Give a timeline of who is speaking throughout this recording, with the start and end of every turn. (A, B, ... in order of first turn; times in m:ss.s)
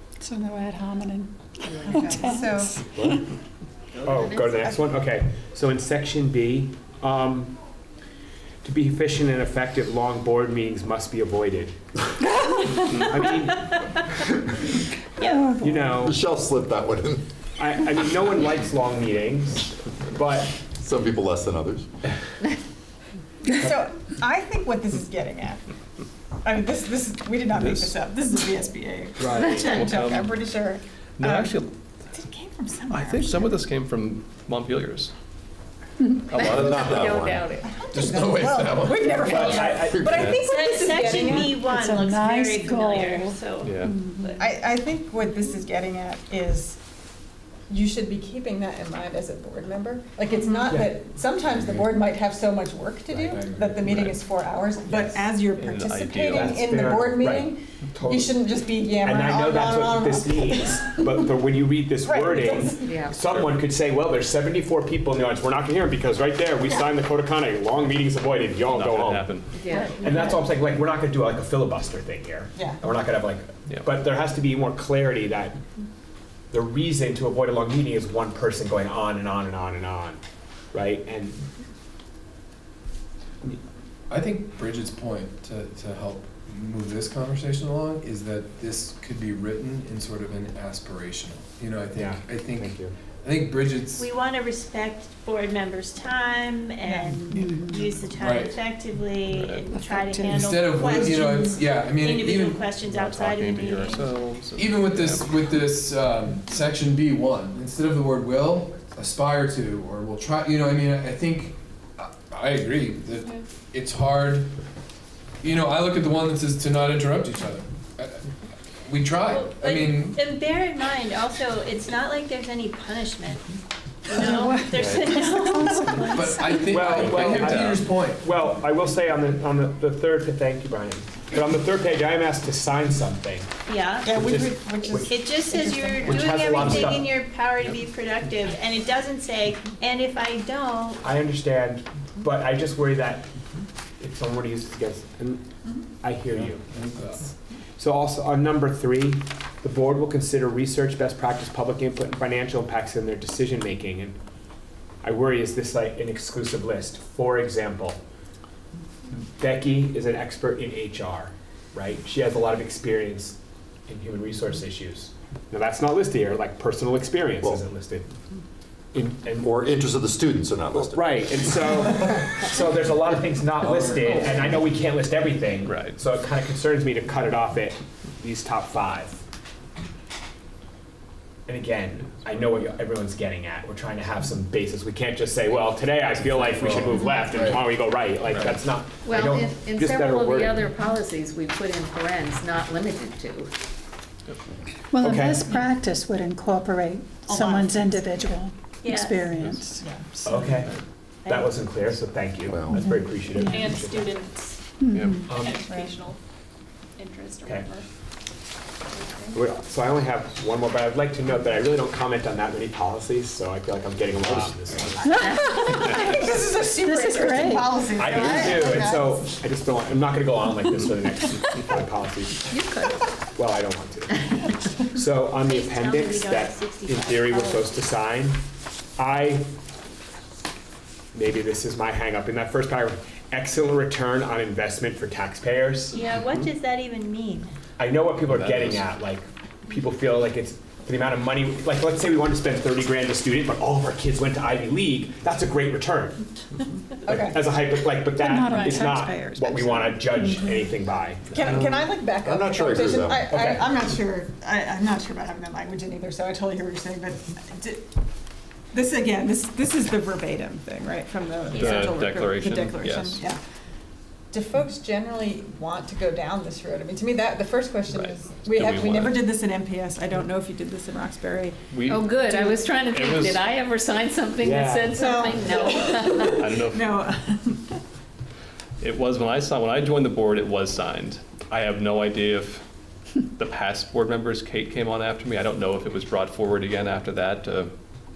0:00.2-0:03.2 A
0:01.9-0:02.8 B
0:02.9-0:03.2 C
0:04.0-0:04.8 D
0:04.0-0:07.5 C
0:08.6-0:11.8 C
0:12.9-0:14.0 C
0:15.2-0:16.0 A
0:15.6-0:16.2 C
0:16.0-0:17.2 E
0:17.6-0:20.6 C
0:20.7-0:21.9 E
0:23.6-0:25.6 B
0:26.4-0:31.6 B
0:27.6-0:27.9 F
0:29.2-0:30.3 F
0:31.2-0:31.7 F
0:32.1-0:33.6 B
0:32.9-0:35.1 F
0:36.3-0:37.1 F
0:36.3-0:37.7 D
0:36.4-0:37.5 E
0:37.6-0:41.8 B
0:37.9-0:39.5 G
0:39.2-0:40.3 C
0:39.4-0:39.6 H
0:39.8-0:40.2 E
0:40.1-0:40.5 F
0:40.5-0:44.5 H
0:41.0-0:41.5 C
0:41.3-0:44.4 A
0:43.6-0:43.9 F
0:44.4-0:46.8 B
0:47.7-1:01.4 B
0:50.7-0:51.0 C
0:51.5-0:51.9 G
0:53.1-0:54.1 G
0:53.8-0:54.1 F
0:54.9-0:55.2 C
0:55.6-0:56.6 F
0:56.2-0:58.3 C
0:59.0-1:09.4 C
1:02.0-1:03.0 B
1:02.8-1:03.2 D
1:03.2-1:03.6 F
1:08.7-1:09.5 F
1:09.5-1:10.3 D
1:09.6-1:10.3 B
1:10.0-1:15.6 C
1:12.5-1:12.8 B
1:16.5-1:20.2 C
1:20.7-1:21.4 C
1:24.1-1:34.1 G
1:31.9-1:32.9 C
1:34.0-1:44.1 H
1:36.8-1:37.1 B
1:37.3-1:37.8 A
1:38.1-1:38.6 G
1:39.3-1:39.7 F
1:39.9-1:40.5 A
1:40.3-1:42.6 G
1:42.8-1:45.5 F
1:44.6-1:54.5 G
1:55.4-1:58.2 G
1:58.8-2:00.2 G
1:59.3-2:03.4 H
2:04.0-2:06.4 H
2:04.1-2:06.9 A
2:04.8-2:05.1 C
2:06.0-2:08.2 G
2:06.6-2:13.5 C
2:13.7-2:14.2 H
2:14.0-2:16.2 B
2:14.1-2:15.1 C
2:15.0-2:21.0 H
2:16.0-2:17.1 C
2:21.0-2:23.3 C
2:24.0-2:25.4 C
2:26.0-2:26.6 C
2:26.4-2:27.3 G
2:27.8-2:34.2 C
2:35.0-2:38.0 C
2:39.1-2:43.4 C
2:43.9-2:48.1 C
2:48.9-2:49.5 C
2:49.4-2:51.8 E
2:50.7-2:59.2 C
2:53.6-2:54.6 G
2:55.6-2:55.9 F
3:01.5-3:10.6 C
3:06.6-3:07.5 E
3:08.3-3:08.6 F
3:09.0-3:13.5 D
3:14.9-3:20.4 A
3:15.0-3:15.5 C
3:17.2-3:18.0 B
3:18.8-3:19.3 H
3:19.4-3:19.6 F
3:19.8-3:20.6 B
3:20.2-3:20.7 C
3:21.2-3:21.5 H
3:21.2-3:24.2 C
3:22.5-3:22.8 E
3:22.7-3:23.7 A
3:23.6-3:24.5 I
3:24.8-3:25.4 A
3:24.9-3:25.2 F
3:25.3-3:25.7 C
3:25.4-3:26.2 I
3:25.6-3:26.0 B
3:27.0-3:27.8 I
3:27.4-3:27.7 C
3:28.9-3:29.3 I
3:29.3-3:35.0 C
3:34.2-3:34.9 E
3:35.0-3:35.3 A
3:35.1-3:35.6 D
3:35.1-3:39.3 B
3:36.7-3:38.1 A
3:37.9-3:42.5 C
3:38.1-3:38.6 D
3:38.6-3:38.9 A
3:42.5-3:43.0 D
3:43.3-3:44.2 C
3:44.8-3:48.4 C
3:45.4-3:47.8 H
3:49.0-3:49.5 C
3:51.1-3:56.0 C
3:55.9-3:57.5 H
3:56.2-3:56.4 F
3:57.8-4:06.2 C
3:58.3-3:58.8 F
4:07.0-4:07.4 B
4:07.1-4:11.6 C
4:08.2-4:10.7 A
4:11.3-4:17.9 B
4:11.5-4:13.6 E
4:13.3-4:13.7 C
4:18.7-4:23.4 B
4:21.5-4:23.2 F
4:24.3-4:31.6 B
4:27.9-4:29.3 F
4:31.7-4:33.4 F
4:31.8-4:36.3 D
4:34.4-4:35.0 C
4:35.0-4:37.8 B
4:36.3-4:37.0 F
4:38.8-4:42.6 F
4:43.2-4:47.7 F